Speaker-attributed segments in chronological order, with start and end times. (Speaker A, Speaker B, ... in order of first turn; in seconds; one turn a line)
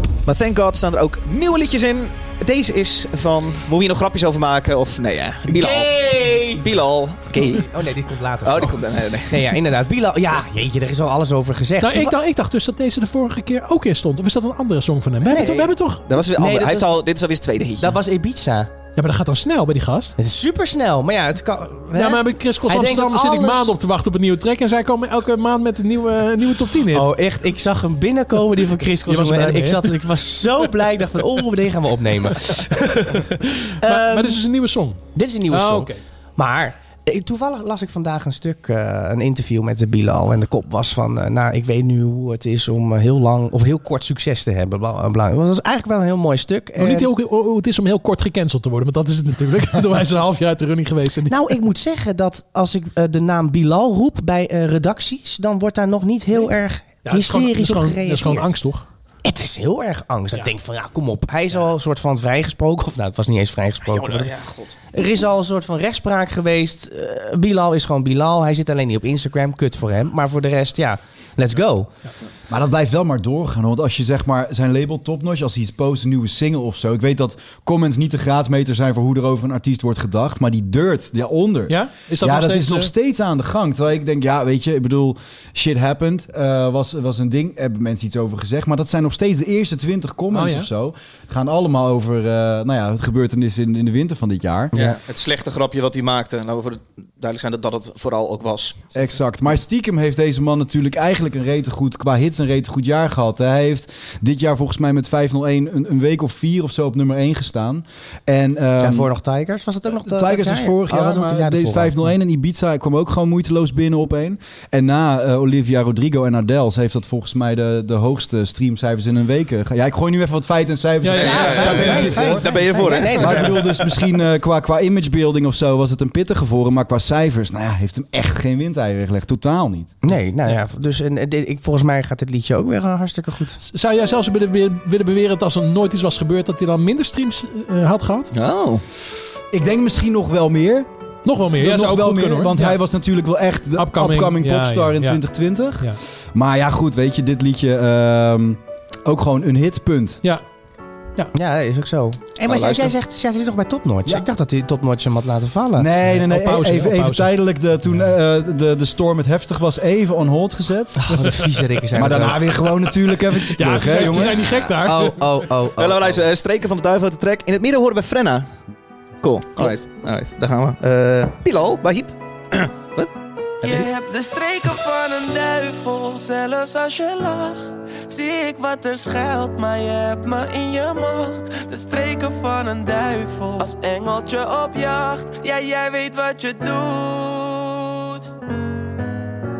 Speaker A: 0.2-7.7
Speaker B: 5.5-6.6
Speaker B: 7.3-12.2
Speaker A: 8.4-9.6
Speaker C: 11.8-16.0
Speaker B: 15.2-15.6
Speaker A: 15.2-18.0
Speaker B: 16.2-17.0
Speaker B: 17.8-18.7
Speaker C: 18.9-20.1
Speaker B: 20.2-23.7
Speaker C: 21.9-27.1
Speaker B: 26.9-34.4
Speaker C: 29.1-30.1
Speaker C: 33.8-36.0
Speaker B: 35.1-47.1
Speaker C: 46.8-51.3
Speaker B: 51.3-58.5
Speaker C: 57.0-58.9
Speaker B: 59.2-64.3
Speaker A: 63.8-64.8
Speaker B: 64.9-71.9
Speaker D: 72.5-94.7
Speaker C: 81.7-82.9
Speaker C: 90.3-90.7
Speaker B: 94.7-95.0
Speaker A: 94.7-98.9
Speaker D: 98.9-109.1
Speaker B: 108.8-112.1
Speaker D: 110.0-129.9
Speaker C: 121.0-122.4
Speaker B: 121.2-123.6
Speaker A: 121.2-123.7
Speaker B: 130.0-133.6
Speaker C: 133.6-138.3
Speaker A: 138.3-138.8
Speaker D: 139.5-140.9
Speaker C: 141.2-142.8
Speaker D: 141.6-150.2
Speaker C: 143.8-145.2
Speaker B: 151.3-155.9
Speaker A: 152.4-152.9
Speaker D: 155.8-161.2
Speaker C: 156.0-157.3
Speaker B: 161.0-162.5
Speaker D: 161.9-164.5
Speaker C: 163.4-165.5
Speaker B: 163.9-166.2
Speaker A: 165.8-168.5
Speaker A: 169.2-173.1
Speaker E: 173.6-188.2